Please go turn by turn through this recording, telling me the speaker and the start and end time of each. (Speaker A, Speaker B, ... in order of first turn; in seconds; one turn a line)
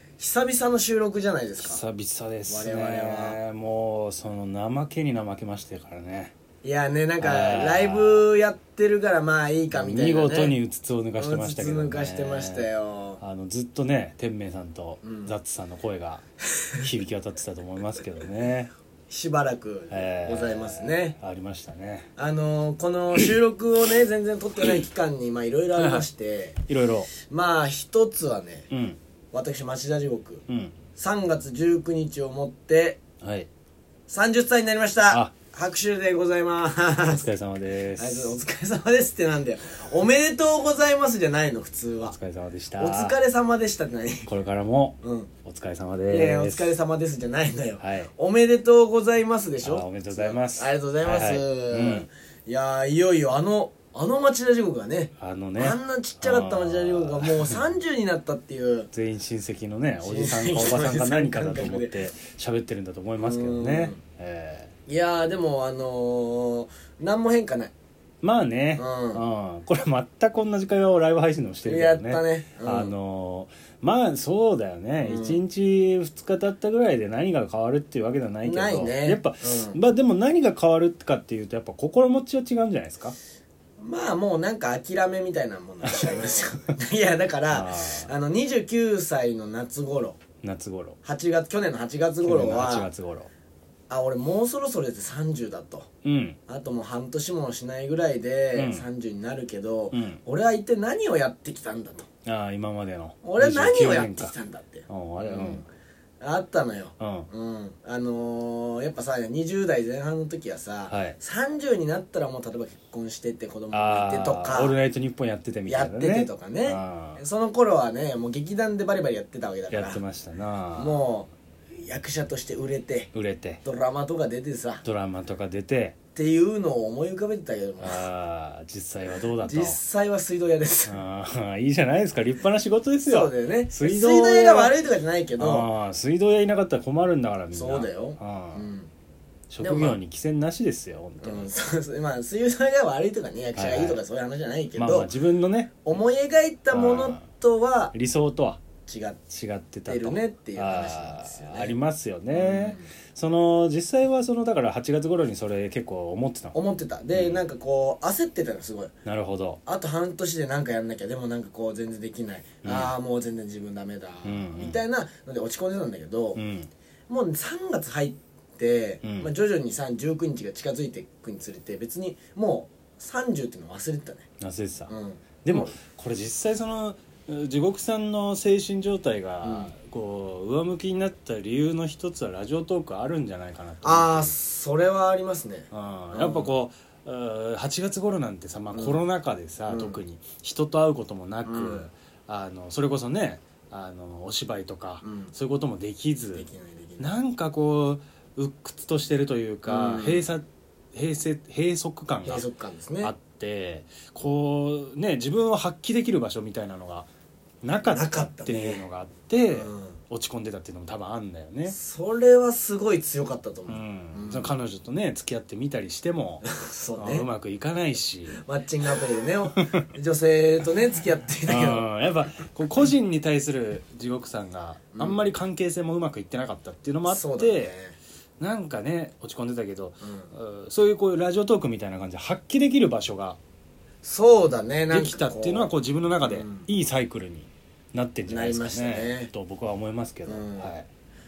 Speaker A: 0.2-1.8
Speaker B: 1.6-6.3
Speaker A: 2.5-3.4
Speaker A: 6.6-10.6
Speaker B: 7.2-8.2
Speaker B: 9.7-12.7
Speaker A: 11.2-13.2
Speaker B: 13.2-16.2
Speaker A: 15.0-15.3
Speaker B: 16.8-18.7
Speaker A: 19.1-21.2
Speaker B: 19.9-22.1
Speaker A: 22.2-26.6
Speaker B: 25.7-26.1
Speaker B: 26.7-27.1
Speaker A: 27.1-28.7
Speaker B: 28.7-29.0
Speaker A: 29.3-30.4
Speaker B: 30.5-30.7
Speaker A: 30.9-33.0
Speaker B: 33.2-33.5
Speaker A: 34.1-37.3
Speaker B: 37.1-38.4
Speaker A: 38.0-42.1
Speaker B: 42.0-43.1
Speaker A: 42.8-44.3
Speaker B: 44.2-46.8
Speaker A: 45.0-45.3
Speaker A: 46.1-58.9
Speaker B: 47.8-48.1
Speaker B: 49.6-52.1
Speaker B: 55.2-57.6
Speaker B: 58.9-64.7
Speaker A: 60.0-61.9
Speaker A: 63.2-64.0
Speaker A: 64.9-67.7
Speaker B: 68.2-83.1
Speaker A: 68.8-69.2
Speaker A: 71.6-72.9
Speaker A: 75.0-75.4
Speaker A: 78.4-79.8
Speaker A: 83.8-90.2
Speaker B: 85.8-86.2
Speaker B: 87.5-88.1
Speaker B: 90.4-91.0
Speaker A: 91.0-92.9
Speaker B: 92.2-93.3
Speaker A: 93.9-95.9
Speaker B: 96.0-96.4
Speaker A: 96.5-102.1
Speaker B: 98.5-98.8
Speaker B: 99.9-100.2
Speaker B: 102.2-104.3
Speaker A: 103.2-105.7
Speaker B: 104.9-105.6
Speaker A: 106.2-114.8
Speaker B: 107.0-107.3
Speaker B: 110.9-111.2
Speaker B: 113.7-117.2
Speaker A: 115.7-120.0
Speaker B: 119.7-121.0
Speaker A: 120.7-121.3
Speaker A: 121.8-123.1
Speaker B: 123.1-123.6
Speaker A: 123.6-124.8
Speaker B: 124.8-126.0
Speaker A: 126.1-128.1
Speaker B: 127.8-129.8
Speaker A: 129.1-131.0
Speaker B: 130.9-134.7
Speaker A: 133.0-135.7
Speaker B: 135.4-138.7
Speaker A: 137.5-138.9
Speaker B: 139.5-141.5
Speaker A: 139.6-140.0
Speaker A: 141.2-145.1
Speaker B: 143.5-144.0
Speaker B: 144.7-145.8
Speaker A: 145.8-147.9
Speaker B: 146.7-147.2
Speaker B: 147.9-148.6
Speaker A: 148.8-149.2
Speaker B: 149.3-156.6
Speaker A: 149.9-151.8
Speaker A: 152.3-152.9
Speaker A: 156.5-158.9
Speaker B: 157.1-157.4
Speaker B: 159.0-159.6
Speaker A: 159.6-166.4
Speaker B: 162.6-162.9
Speaker B: 164.2-164.8
Speaker B: 166.3-166.7
Speaker A: 167.1-174.3
Speaker B: 169.0-169.3
Speaker B: 174.4-174.9
Speaker A: 174.9-175.7
Speaker B: 175.4-184.3
Speaker A: 179.4-179.7
Speaker A: 183.8-186.5
Speaker B: 185.7-196.5
Speaker A: 188.7-189.0
Speaker A: 189.7-190.0
Speaker A: 191.4-191.9
Speaker A: 195.0-195.3
Speaker A: 196.3-197.1
Speaker B: 197.0-202.4
Speaker A: 199.7-200.3
Speaker A: 202.2-203.1
Speaker B: 203.0-207.1
Speaker B: 207.6-211.8
Speaker A: 207.8-208.8
Speaker A: 209.5-210.0
Speaker A: 211.7-214.5
Speaker B: 213.7-216.4
Speaker A: 216.4-217.3
Speaker B: 217.0-219.8
Speaker A: 218.4-221.8
Speaker B: 221.4-227.7
Speaker A: 224.9-225.3
Speaker A: 227.1-227.9
Speaker B: 228.4-233.4
Speaker A: 230.0-230.3
Speaker A: 234.0-236.7
Speaker B: 234.9-240.9
Speaker A: 238.3-239.3
Speaker A: 240.2-240.7